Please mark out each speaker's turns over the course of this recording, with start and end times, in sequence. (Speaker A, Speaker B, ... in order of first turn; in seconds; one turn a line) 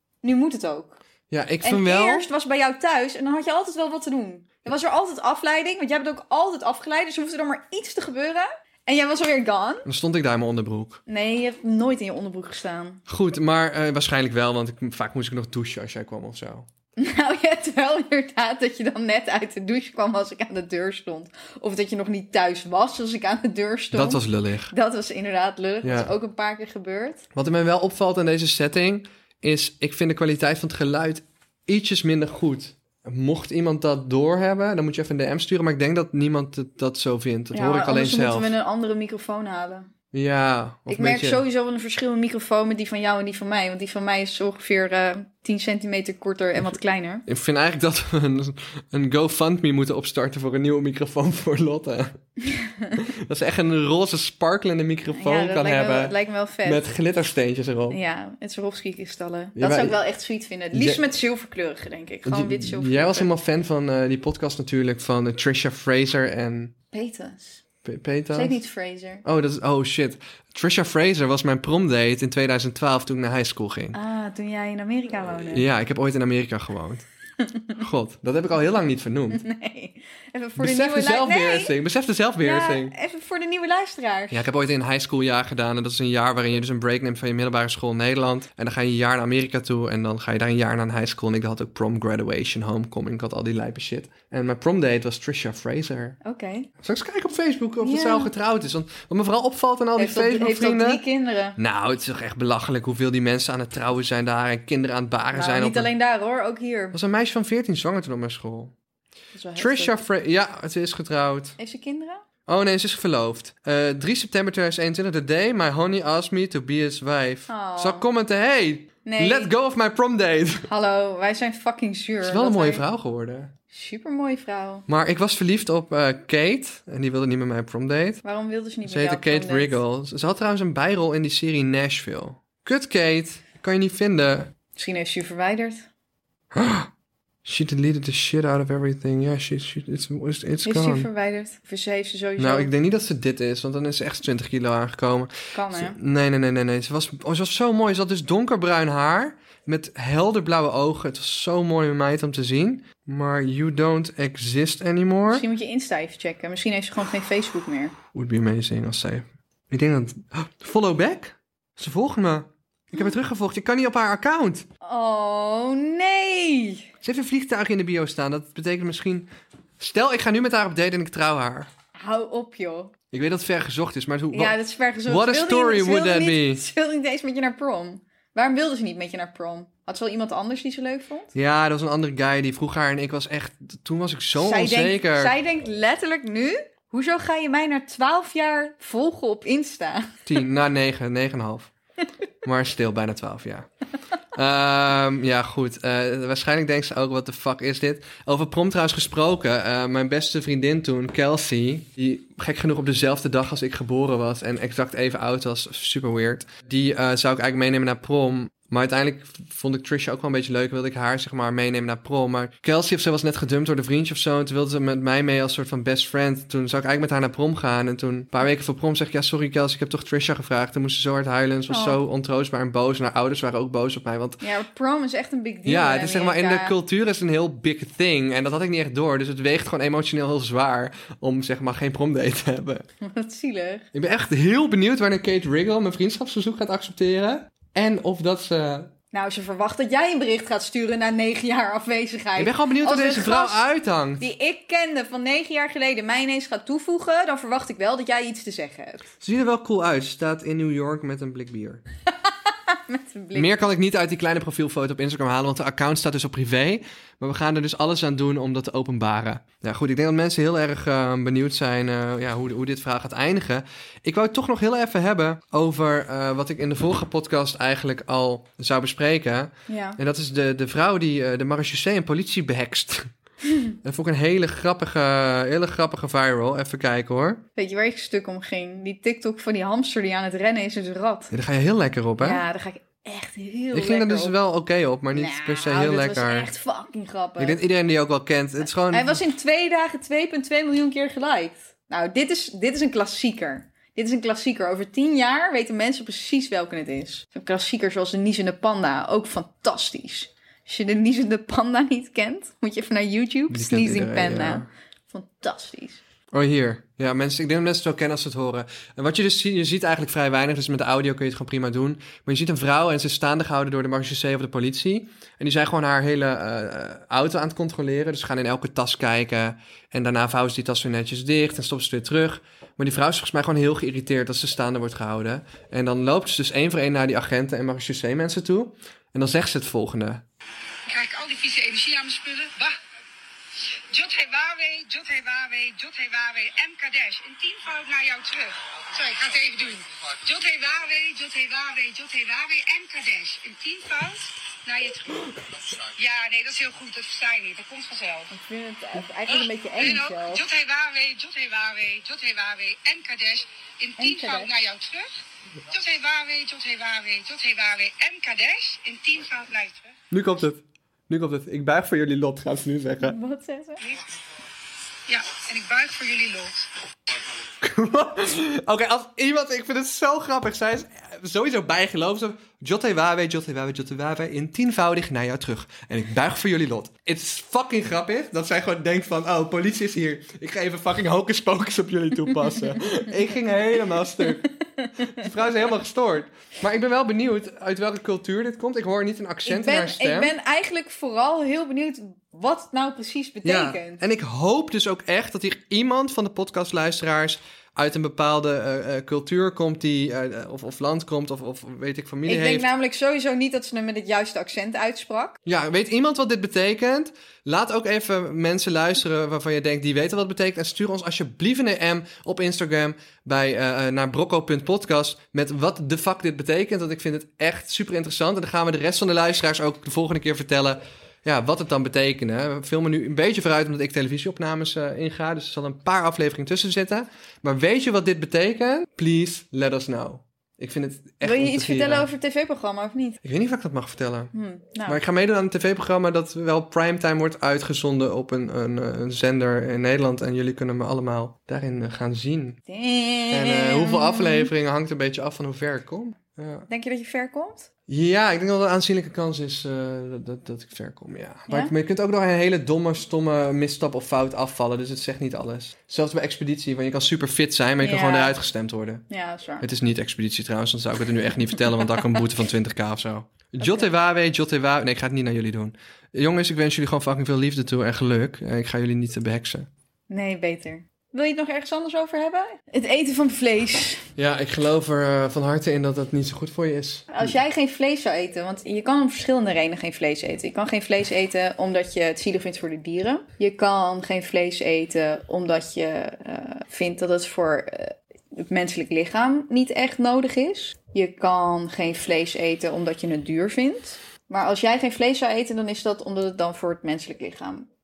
Speaker A: 0.2-1.0
Speaker B: 1.3-2.3
Speaker A: 1.6-9.9
Speaker B: 9.8-11.0
Speaker A: 11.1-13.0
Speaker B: 13.1-16.7
Speaker A: 17.0-27.2
Speaker B: 23.9-24.7
Speaker B: 25.8-26.1
Speaker B: 27.3-38.5
Speaker A: 37.5-39.9
Speaker B: 40.1-41.4
Speaker A: 40.9-47.2
Speaker B: 47.3-52.2
Speaker A: 52.4-53.0
Speaker B: 53.0-56.1
Speaker A: 55.1-56.8
Speaker B: 56.6-58.0
Speaker A: 57.9-63.3
Speaker B: 59.5-60.0
Speaker B: 60.7-61.0
Speaker B: 62.2-66.7
Speaker A: 66.9-67.6
Speaker B: 67.8-68.6
Speaker A: 68.3-69.2
Speaker B: 69.2-74.0
Speaker A: 73.9-75.7
Speaker B: 75.3-77.0
Speaker B: 77.8-79.4
Speaker A: 79.3-81.7
Speaker B: 80.6-82.9
Speaker A: 82.4-84.4
Speaker B: 84.3-96.2
Speaker A: 96.2-96.7
Speaker B: 96.8-101.0
Speaker A: 97.8-98.3
Speaker A: 100.0-101.6
Speaker B: 101.6-105.9
Speaker A: 105.3-107.0
Speaker B: 106.9-108.7
Speaker A: 109.3-110.0
Speaker B: 109.5-111.5
Speaker A: 111.6-112.2
Speaker B: 112.5-120.7
Speaker A: 117.5-118.1
Speaker A: 119.0-119.5
Speaker A: 120.7-122.8
Speaker B: 122.2-123.5
Speaker A: 123.7-124.8
Speaker B: 124.9-128.2
Speaker A: 128.2-129.8
Speaker B: 128.8-134.5
Speaker A: 134.7-135.9
Speaker B: 136.5-136.9
Speaker B: 137.4-141.1
Speaker A: 140.6-142.7
Speaker B: 142.4-155.4
Speaker A: 145.5-146.0
Speaker A: 155.3-157.9
Speaker B: 158.1-164.7
Speaker A: 164.8-166.9
Speaker B: 167.0-171.7
Speaker A: 171.9-172.9
Speaker B: 173.1-174.6
Speaker A: 174.3-181.3
Speaker B: 175.1-176.6
Speaker B: 181.3-185.4
Speaker A: 184.4-190.2
Speaker B: 190.2-191.7
Speaker B: 192.4-193.7
Speaker B: 194.3-224.4
Speaker A: 221.7-222.0
Speaker A: 224.4-226.7
Speaker B: 225.7-232.8
Speaker A: 233.0-233.9
Speaker B: 233.9-238.9
Speaker A: 239.1-243.6
Speaker B: 242.4-244.2
Speaker A: 244.2-249.0
Speaker B: 249.2-251.8
Speaker A: 252.3-253.5
Speaker B: 253.3-273.1
Speaker A: 269.7-270.0
Speaker B: 273.8-277.4
Speaker A: 277.6-281.3
Speaker B: 281.3-282.4
Speaker A: 282.2-284.3
Speaker B: 283.7-286.5
Speaker A: 285.1-287.6
Speaker B: 287.4-289.2
Speaker A: 288.9-306.0
Speaker B: 303.5-304.7
Speaker B: 306.3-330.2
Speaker C: 330.9-332.8
Speaker C: 333.7-348.3
Speaker A: 348.3-350.4
Speaker C: 349.3-355.1
Speaker A: 354.0-354.5
Speaker C: 355.7-359.9
Speaker B: 360.1-363.2
Speaker A: 363.0-363.8
Speaker C: 365.1-366.7
Speaker B: 367.6-384.4
Speaker A: 384.2-385.3
Speaker B: 385.0-390.3
Speaker A: 389.4-394.0
Speaker B: 393.4-402.7
Speaker A: 402.2-405.4
Speaker B: 405.4-432.1
Speaker A: 431.2-433.2
Speaker B: 433.2-434.3
Speaker A: 434.3-435.0
Speaker B: 434.9-442.6
Speaker A: 442.7-444.5
Speaker B: 443.3-446.7
Speaker A: 446.7-447.7
Speaker B: 447.9-459.0
Speaker A: 457.8-458.3
Speaker A: 459.1-459.7
Speaker B: 459.6-469.7
Speaker A: 463.6-463.9
Speaker A: 470.1-474.1
Speaker B: 474.2-477.3
Speaker A: 477.1-497.7